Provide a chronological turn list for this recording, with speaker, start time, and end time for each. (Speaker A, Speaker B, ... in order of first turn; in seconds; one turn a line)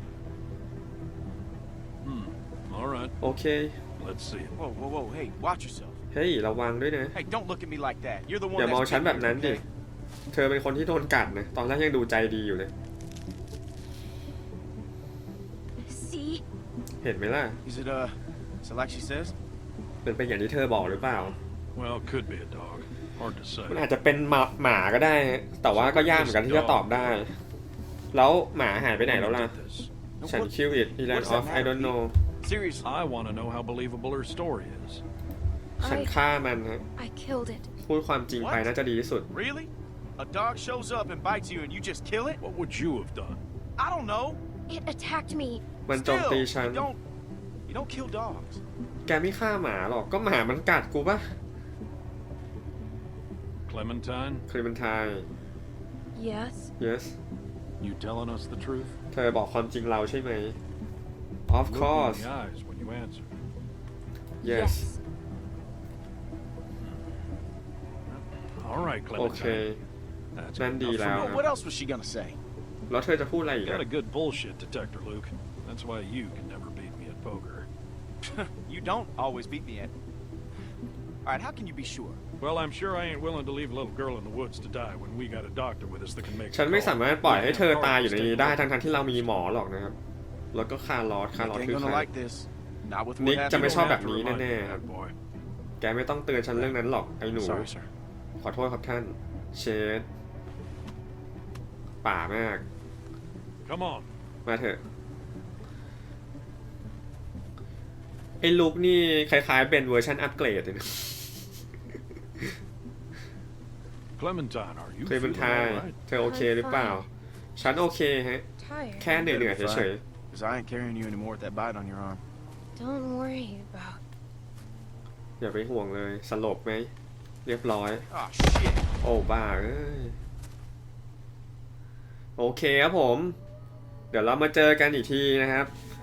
Speaker A: 2.0-3.1
Speaker B: 3.2-3.8
Speaker A: 4.0-4.6
Speaker C: 4.5-6.0
Speaker B: 6.1-7.1
Speaker C: 7.1-9.6
Speaker B: 8.5-9.6
Speaker B: 10.3-12.7
Speaker D: 15.8-16.4
Speaker B: 17.0-17.6
Speaker C: 17.6-19.3
Speaker B: 20.0-21.4
Speaker A: 21.7-23.8
Speaker B: 23.7-27.3
Speaker A: 25.7-27.2
Speaker B: 28.1-29.5
Speaker A: 29.0-29.9
Speaker C: 30.2-30.5
Speaker B: 30.2-32.1
Speaker C: 31.0-32.9
Speaker A: 32.8-35.0
Speaker D: 35.8-36.1
Speaker B: 35.8-36.8
Speaker D: 37.0-37.7
Speaker B: 37.8-39.3
Speaker C: 38.3-38.7
Speaker C: 39.3-42.4
Speaker A: 42.4-43.4
Speaker C: 43.8-44.4
Speaker D: 44.7-45.6
Speaker B: 45.9-46.9
Speaker C: 45.9-47.0
Speaker C: 47.7-48.6
Speaker B: 49.0-51.3
Speaker A: 53.6-54.5
Speaker B: 54.5-55.2
Speaker D: 56.1-56.7
Speaker B: 56.8-57.2
Speaker A: 57.8-59.0
Speaker B: 59.1-60.6
Speaker B: 61.5-62.3
Speaker A: 61.7-63.3
Speaker B: 64.4-64.9
Speaker D: 64.4-65.0
Speaker A: 66.8-67.0
Speaker A: 68.1-69.7
Speaker B: 69.1-69.8
Speaker A: 70.3-71.4
Speaker B: 70.6-71.4
Speaker C: 71.0-72.4
Speaker B: 72.9-73.8
Speaker A: 73.6-77.7
Speaker C: 78.2-79.9
Speaker C: 81.2-82.2
Speaker A: 82.4-88.9
Speaker B: 86.5-90.0
Speaker B: 90.5-92.1
Speaker C: 91.4-94.0
Speaker B: 93.2-94.8
Speaker A: 93.5-95.1
Speaker B: 95.8-97.7
Speaker C: 97.3-97.9
Speaker B: 98.4-100.1
Speaker B: 102.0-102.6
Speaker A: 103.6-104.1
Speaker B: 104.5-104.8
Speaker B: 108.4-112.5
Speaker A: 114.2-115.9
Speaker B: 115.0-118.5
Speaker D: 116.2-117.1
Speaker D: 118.6-119.2
Speaker B: 119.0-120.0
Speaker C: 119.1-122.2
Speaker D: 122.8-124.0
Speaker B: 125.4-126.9
Speaker B: 127.4-128.0
Speaker C: 128.1-128.9
Speaker B: 129.0-130.2
Speaker B: 132.4-133.4
Speaker B: 134.1-135.7